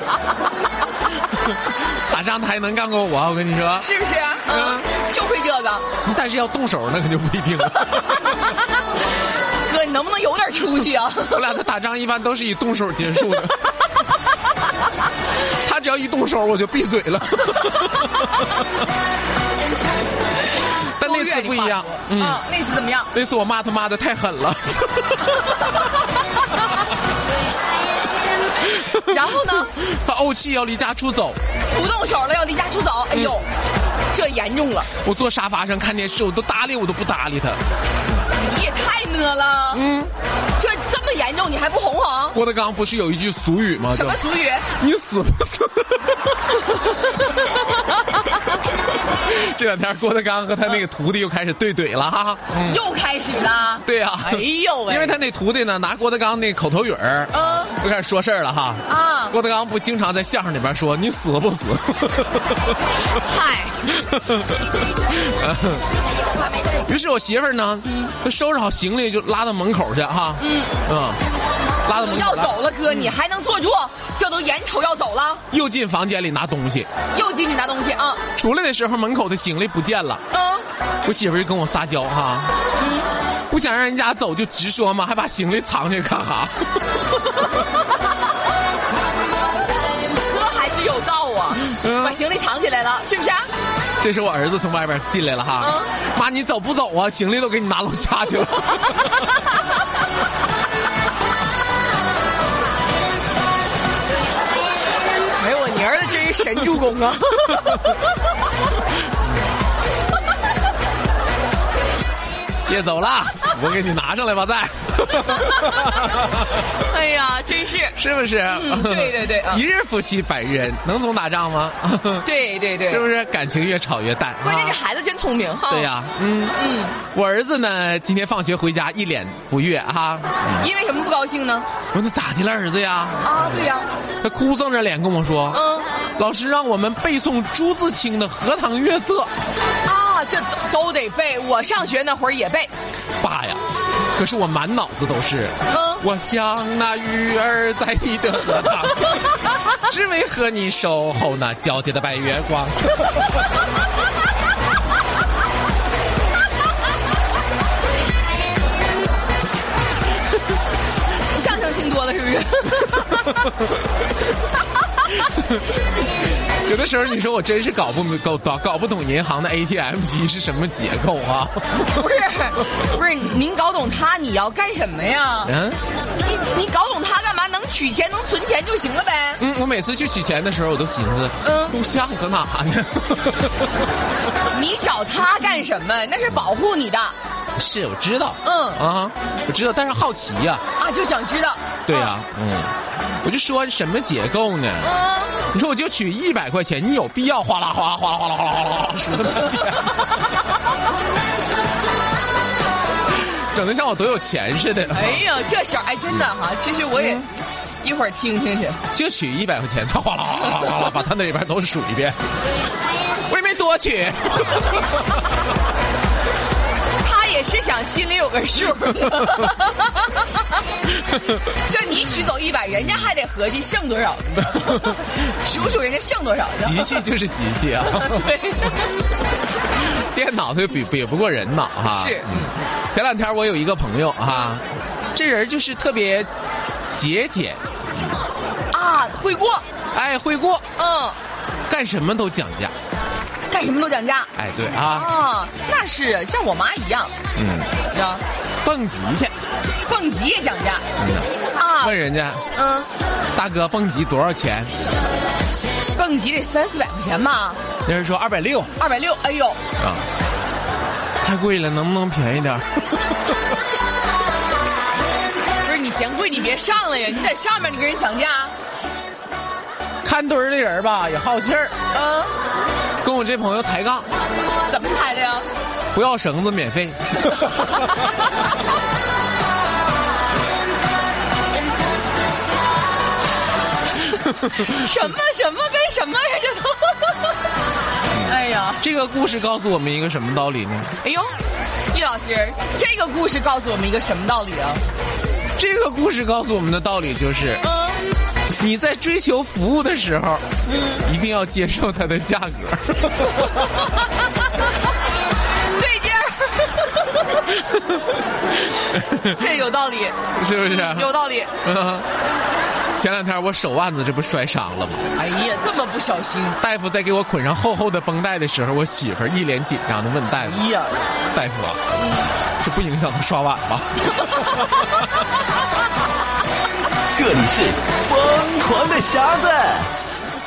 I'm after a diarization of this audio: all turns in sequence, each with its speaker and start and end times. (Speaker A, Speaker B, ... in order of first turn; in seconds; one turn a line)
Speaker A: 1.5-3.9
Speaker B: 3.8-5.9
Speaker A: 4.5-4.9
Speaker A: 6.0-8.4
Speaker B: 9.6-11.4
Speaker A: 11.3-13.7
Speaker A: 15.6-18.6
Speaker A: 21.0-22.4
Speaker B: 21.0-23.1
Speaker A: 23.1-25.6
Speaker A: 28.8-31.4
Speaker B: 29.1-29.7
Speaker B: 31.7-33.5
Speaker B: 34.1-34.9
Speaker A: 35.0-37.6
Speaker B: 38.3-39.8
Speaker A: 39.7-40.1
Speaker B: 40.5-42.4
Speaker A: 42.3-44.2
Speaker B: 43.9-44.7
Speaker A: 44.8-46.6
Speaker A: 47.2-47.8
Speaker A: 49.0-52.8
Speaker B: 52.6-55.2
Speaker A: 53.8-62.8
Speaker B: 57.3-57.7
Speaker B: 58.9-59.4
Speaker B: 63.1-63.8
Speaker A: 63.9-65.8
Speaker A: 66.8-71.2
Speaker B: 70.4-70.8
Speaker A: 71.8-73.1
Speaker B: 71.9-75.4
Speaker A: 75.5-76.9
Speaker B: 77.1-78.2
Speaker A: 78.3-80.2
Speaker B: 80.3-80.7
Speaker A: 81.0-82.5
Speaker B: 82.8-83.1
Speaker A: 83.5-86.5
Speaker B: 90.1-93.5
Speaker A: 91.6-92.2
Speaker A: 94.0-99.3
Speaker B: 95.6-95.9
Speaker B: 105.3-108.0
Speaker A: 112.7-116.4
Speaker B: 115.3-116.1
Speaker B: 116.7-119.6
Speaker A: 117.9-122.3
Speaker B: 122.2-123.1
Speaker A: 122.9-124.8
Speaker B: 124.4-125.9
Speaker A: 125.7-126.5
Speaker B: 126.5-127.0
Speaker A: 127.1-130.7
Speaker B: 130.6-131.7
Speaker A: 131.9-133.6
Speaker B: 133.2-133.9
Speaker A: 134.2-135.6
Speaker B: 135.5-135.9
Speaker A: 136.2-139.3
Speaker B: 139.8-142.7
Speaker A: 143.2-143.6
Speaker A: 144.1-153.2
Speaker B: 145.7-146.1
Speaker B: 161.3-163.5
Speaker A: 166.6-171.6
Speaker B: 171.8-175.5
Speaker A: 175.4-175.8
Speaker B: 176.2-179.4
Speaker A: 179.4-183.7
Speaker B: 181.4-181.8
Speaker B: 184.5-187.1
Speaker A: 187.6-190.6
Speaker B: 188.4-188.8
Speaker B: 190.8-192.1
Speaker A: 191.8-194.9
Speaker B: 194.8-195.4
Speaker A: 195.5-200.0
Speaker A: 203.2-205.2
Speaker B: 204.9-207.3
Speaker A: 206.9-207.2
Speaker B: 207.8-208.8
Speaker A: 208.9-212.2
Speaker A: 213.3-215.0
Speaker B: 217.0-220.2
Speaker A: 221.1-221.4
Speaker B: 221.5-227.0
Speaker A: 226.6-228.3
Speaker B: 227.8-228.9
Speaker A: 230.0-236.3
Speaker B: 231.8-232.6
Speaker A: 236.9-237.6
Speaker B: 238.7-239.6
Speaker A: 239.9-240.6
Speaker B: 240.8-241.2
Speaker A: 241.7-242.7
Speaker B: 243.5-244.3
Speaker A: 244.3-245.1
Speaker B: 244.9-247.1
Speaker A: 247.3-247.7
Speaker B: 247.9-248.2
Speaker A: 248.6-249.3
Speaker B: 249.8-250.8
Speaker A: 251.0-251.3
Speaker B: 251.5-251.9
Speaker A: 251.8-252.4
Speaker B: 252.5-252.9
Speaker A: 253.3-254.7
Speaker B: 255.9-257.6
Speaker A: 257.8-258.7
Speaker B: 258.8-259.6
Speaker A: 259.8-260.1
Speaker A: 261.2-263.1
Speaker B: 265.6-268.5
Speaker A: 270.0-271.7
Speaker B: 271.9-272.3
Speaker A: 273.0-274.1
Speaker B: 274.7-275.5
Speaker A: 275.9-278.0
Speaker B: 284.4-287.3
Speaker A: 288.1-290.9
Speaker B: 288.2-288.8
Speaker B: 291.0-291.3
Speaker B: 291.9-294.8
Speaker A: 295.6-297.6
Speaker B: 297.6-298.0
Speaker A: 298.6-300.4
Speaker B: 300.7-301.0
Speaker A: 301.0-303.5
Speaker B: 305.7-307.4
Speaker A: 307.6-309.4
Speaker B: 309.2-311.5
Speaker A: 310.4-312.1
Speaker A: 313.0-315.0
Speaker B: 315.1-316.6
Speaker A: 316.6-320.7
Speaker B: 320.4-321.2
Speaker A: 321.3-321.8
Speaker A: 322.6-325.1
Speaker B: 324.3-324.7
Speaker C: 327.1-329.9